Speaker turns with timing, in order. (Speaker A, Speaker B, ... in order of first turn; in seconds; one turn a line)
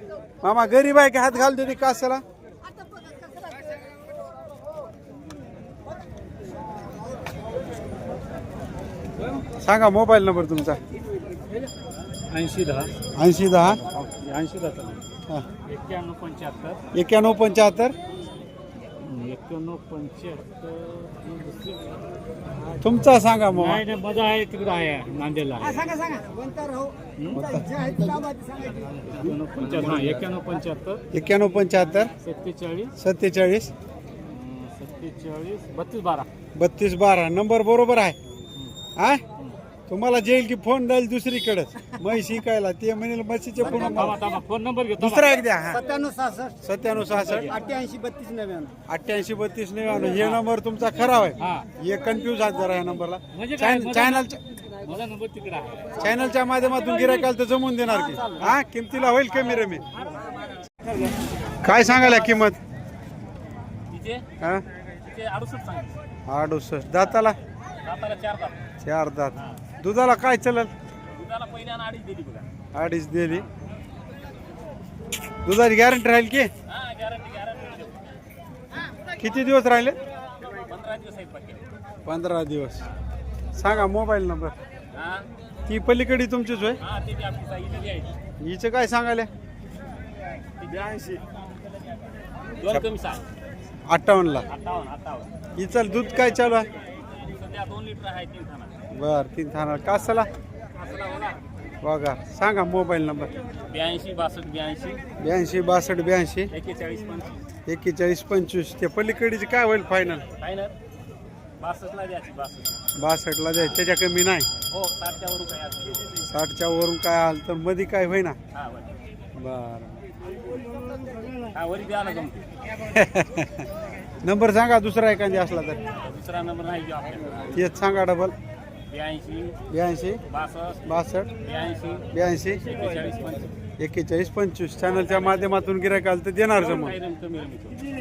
Speaker A: 0.4-2.2
Speaker A: 9.6-10.8
Speaker B: 12.3-12.9
Speaker A: 13.2-13.8
Speaker B: 13.9-15.0
Speaker B: 15.7-16.8
Speaker A: 16.9-17.9
Speaker B: 19.0-21.9
Speaker A: 22.8-23.9
Speaker B: 23.6-26.1
Speaker C: 26.0-26.9
Speaker A: 27.3-28.0
Speaker C: 27.8-30.3
Speaker B: 28.6-31.0
Speaker A: 31.1-32.1
Speaker B: 32.2-32.9
Speaker A: 33.0-33.7
Speaker B: 34.2-36.3
Speaker A: 36.5-38.2
Speaker A: 39.0-39.2
Speaker A: 39.9-44.2
Speaker B: 43.6-45.4
Speaker A: 45.0-46.0
Speaker C: 45.9-46.5
Speaker A: 46.6-47.6
Speaker B: 47.2-47.7
Speaker C: 47.6-48.7
Speaker A: 48.9-54.4
Speaker B: 53.3-54.2
Speaker B: 54.8-55.9
Speaker A: 56.0-59.9
Speaker A: 61.6-62.6
Speaker B: 63.9-64.2
Speaker B: 65.0-65.9
Speaker A: 66.3-67.3
Speaker B: 67.8-68.7
Speaker A: 68.8-70.7
Speaker B: 69.3-69.6
Speaker B: 71.1-72.5
Speaker A: 72.7-73.5
Speaker A: 75.4-76.5
Speaker B: 76.7-78.1
Speaker A: 79.2-80.0
Speaker B: 80.4-81.7
Speaker A: 82.0-82.8
Speaker A: 83.5-84.5
Speaker B: 84.9-85.3
Speaker A: 85.7-86.8
Speaker B: 86.8-88.2
Speaker A: 88.4-89.3
Speaker B: 90.6-91.2
Speaker B: 92.6-93.2
Speaker A: 93.9-94.5
Speaker B: 94.5-95.3
Speaker A: 95.6-96.7
Speaker B: 97.0-98.8
Speaker A: 98.9-100.3
Speaker B: 100.7-101.4
Speaker A: 101.8-103.3
Speaker B: 103.7-105.0
Speaker A: 105.2-106.5
Speaker B: 106.5-107.4
Speaker A: 107.7-110.2
Speaker B: 110.4-110.7
Speaker B: 111.6-112.9
Speaker A: 113.0-114.5
Speaker B: 114.7-116.2
Speaker A: 116.3-118.4
Speaker B: 118.5-119.0
Speaker A: 119.3-120.0
Speaker B: 121.5-122.5
Speaker A: 122.8-123.7
Speaker A: 124.2-125.8
Speaker B: 125.9-127.6
Speaker A: 127.5-128.3
Speaker B: 128.9-129.6
Speaker A: 129.7-130.2
Speaker B: 130.3-130.8
Speaker A: 130.8-131.3
Speaker B: 131.4-133.6
Speaker A: 132.1-132.7
Speaker A: 133.8-137.0
Speaker B: 135.1-135.3
Speaker B: 136.5-137.9